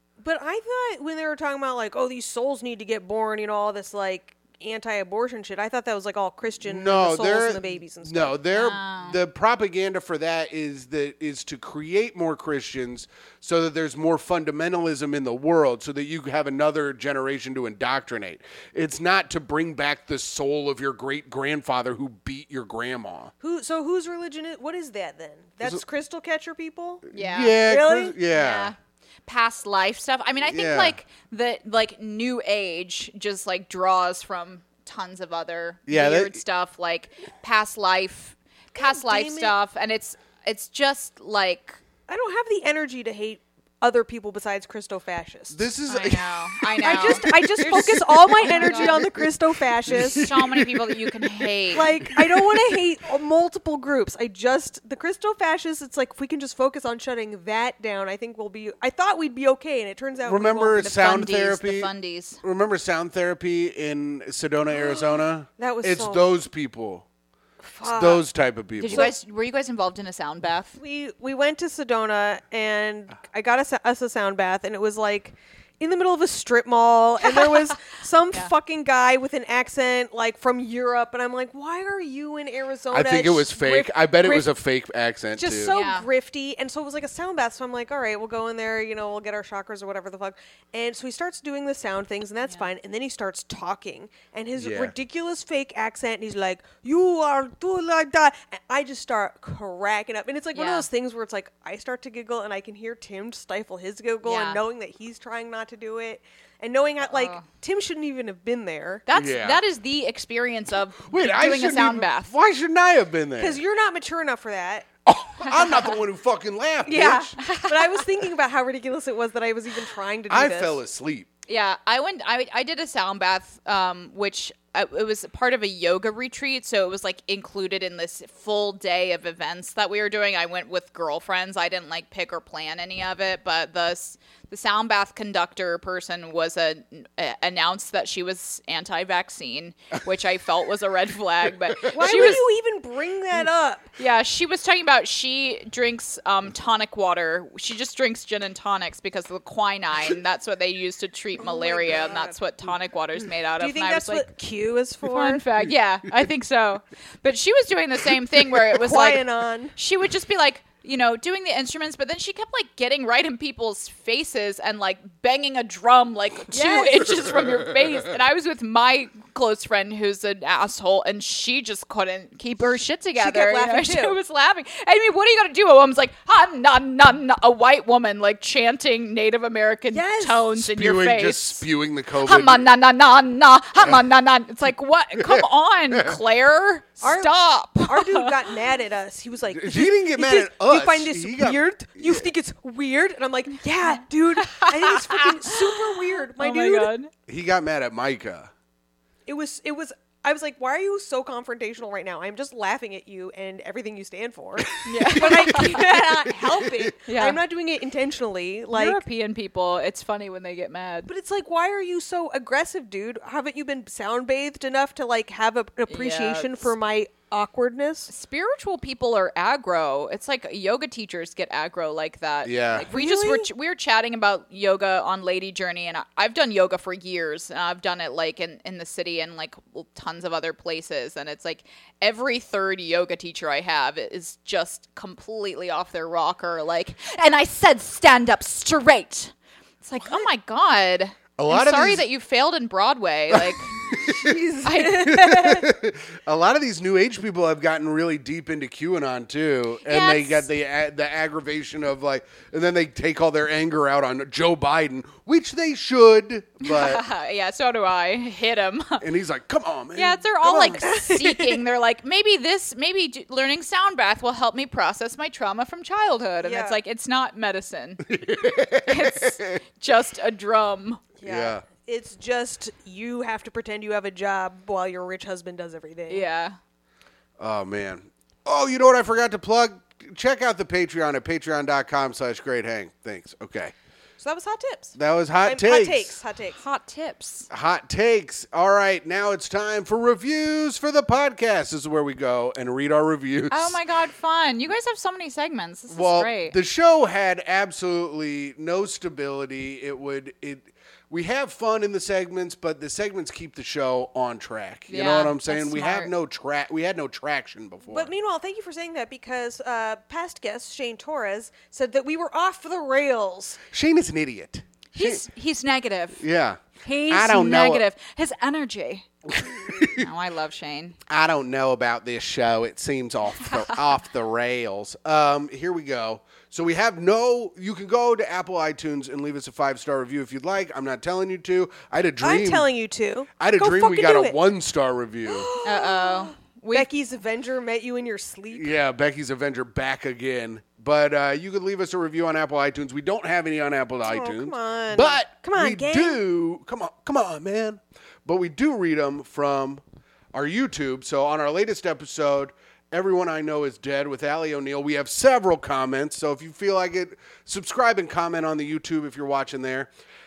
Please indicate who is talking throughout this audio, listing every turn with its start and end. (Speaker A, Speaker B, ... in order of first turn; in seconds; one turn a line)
Speaker A: 0.2-8.4
Speaker B: 6.6-23.3
Speaker C: 8.5-9.2
Speaker A: 23.4-27.1
Speaker C: 27.1-27.6
Speaker B: 27.1-28.7
Speaker A: 27.6-28.2
Speaker C: 28.3-41.8
Speaker B: 30.4-31.0
Speaker B: 35.9-36.4
Speaker A: 38.8-39.5
Speaker A: 42.1-45.6
Speaker B: 45.5-49.3
Speaker C: 45.9-49.1
Speaker A: 46.8-50.3
Speaker B: 49.8-52.8
Speaker C: 49.9-51.9
Speaker A: 51.7-60.9
Speaker B: 60.2-61.9
Speaker C: 60.8-62.4
Speaker B: 62.4-67.1
Speaker A: 65.6-66.2
Speaker A: 67.7-68.2
Speaker B: 67.8-69.1
Speaker C: 68.8-70.8
Speaker A: 68.9-69.1
Speaker A: 70.8-84.5
Speaker C: 77.2-77.8
Speaker B: 82.9-85.8
Speaker A: 85.4-109.0
Speaker C: 85.7-86.1
Speaker B: 94.6-94.9
Speaker C: 100.5-100.9
Speaker C: 104.2-104.6
Speaker C: 107.0-107.5
Speaker C: 109.1-112.3
Speaker B: 109.1-109.6
Speaker B: 111.0-113.6
Speaker A: 113.4-114.9
Speaker B: 115.1-117.4
Speaker C: 115.5-116.0
Speaker A: 116.8-120.8
Speaker C: 117.4-118.0
Speaker B: 120.3-121.3
Speaker C: 121.5-142.4
Speaker B: 141.8-142.4
Speaker A: 141.9-143.9
Speaker C: 144.0-154.3
Speaker A: 151.4-152.3
Speaker A: 153.6-155.4
Speaker C: 155.0-181.7
Speaker A: 158.7-159.8
Speaker A: 166.5-167.1
Speaker B: 167.2-167.7
Speaker A: 173.2-174.2
Speaker A: 179.9-180.5
Speaker B: 180.6-182.7
Speaker C: 182.2-188.3
Speaker B: 185.2-186.2
Speaker A: 187.0-196.9
Speaker B: 189.5-192.3
Speaker C: 193.9-197.1
Speaker B: 197.3-198.5
Speaker A: 199.3-209.0
Speaker C: 204.8-205.8
Speaker B: 205.0-206.9
Speaker C: 207.1-207.4
Speaker C: 208.7-211.1
Speaker A: 211.1-218.1
Speaker C: 215.9-216.7
Speaker C: 218.1-244.0
Speaker B: 222.4-222.9
Speaker A: 222.9-223.5
Speaker B: 241.4-242.1
Speaker B: 243.3-244.4
Speaker A: 244.0-245.7
Speaker C: 244.6-245.1
Speaker B: 244.9-257.0
Speaker C: 249.8-250.5
Speaker C: 256.6-259.0
Speaker B: 259.0-260.8
Speaker C: 259.9-268.1
Speaker A: 260.7-261.6
Speaker A: 266.4-266.8
Speaker B: 268.0-269.6
Speaker C: 268.9-271.0
Speaker A: 271.2-276.2
Speaker B: 271.2-271.7
Speaker C: 276.1-276.6
Speaker B: 277.4-283.7
Speaker A: 284.2-286.6
Speaker B: 285.0-286.2
Speaker C: 286.6-287.5
Speaker B: 287.5-293.8
Speaker C: 293.5-296.6
Speaker B: 295.9-308.1
Speaker C: 304.9-306.1
Speaker A: 307.9-313.6
Speaker B: 313.7-315.2
Speaker C: 314.9-316.2
Speaker B: 316.2-317.9
Speaker C: 316.8-321.0
Speaker B: 319.3-320.1
Speaker B: 321.1-332.7
Speaker A: 332.2-334.4
Speaker B: 333.4-335.5
Speaker A: 335.3-338.8
Speaker C: 335.6-336.9
Speaker B: 338.5-349.8
Speaker A: 344.1-346.2
Speaker B: 350.3-359.9